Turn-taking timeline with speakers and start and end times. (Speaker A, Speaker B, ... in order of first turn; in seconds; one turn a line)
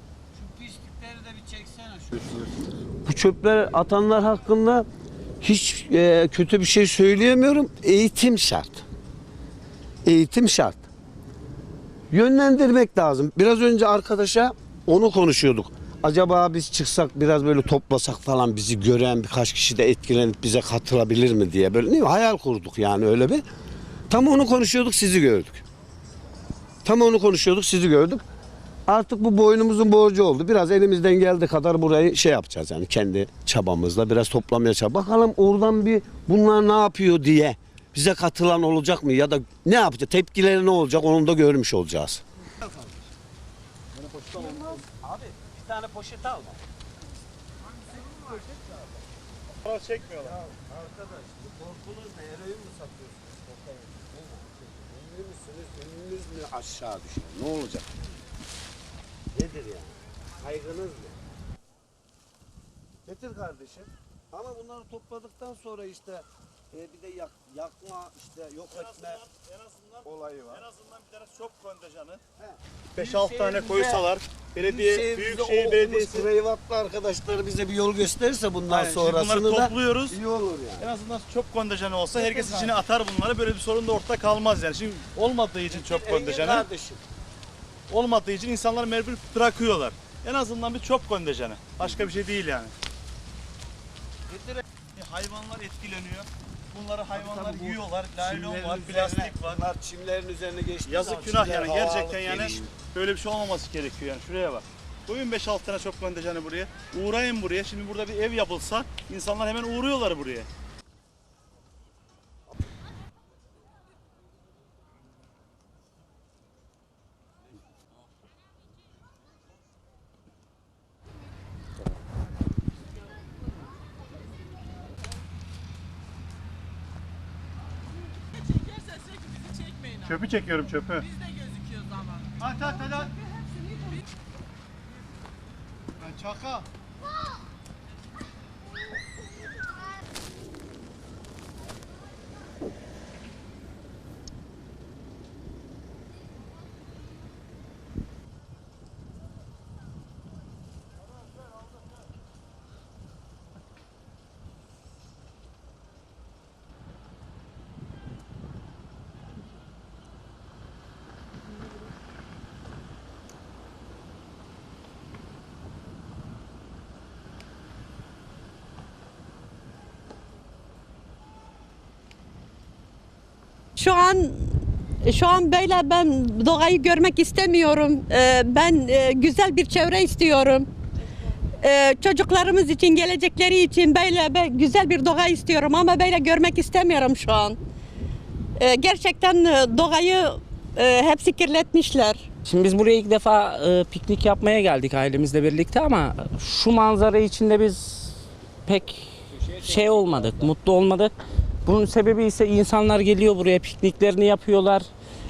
Speaker A: 0.3-4.9
Speaker A: 5.4-8.9
Speaker A: 10.1-10.9
Speaker A: 12.1-23.4
Speaker A: 24.1-25.6
Speaker A: 26.9-28.2
Speaker A: 28.9-42.9
Speaker B: 44.0-44.6
Speaker A: 44.3-46.6
Speaker A: 48.0-48.9
Speaker B: 49.6-50.4
Speaker A: 50.2-57.9
Speaker A: 59.3-61.2
Speaker A: 63.0-69.2
Speaker B: 68.7-72.2
Speaker A: 70.0-70.6
Speaker A: 72.4-74.1
Speaker B: 72.9-76.3
Speaker A: 74.6-80.9
Speaker B: 78.7-80.2
Speaker B: 80.8-86.7
Speaker A: 82.1-82.8
Speaker A: 85.7-87.0
Speaker B: 87.9-92.7
Speaker A: 94.3-94.6
Speaker B: 94.9-99.6
Speaker A: 97.1-102.8
Speaker B: 100.8-110.5
Speaker B: 130.0-131.1
Speaker B: 132.4-133.2
Speaker B: 136.0-136.7
Speaker C: 173.8-180.7
Speaker C: 181.6-187.6
Speaker C: 188.6-192.2
Speaker D: 192.4-201.1
Speaker A: 199.4-200.5
Speaker D: 201.7-204.9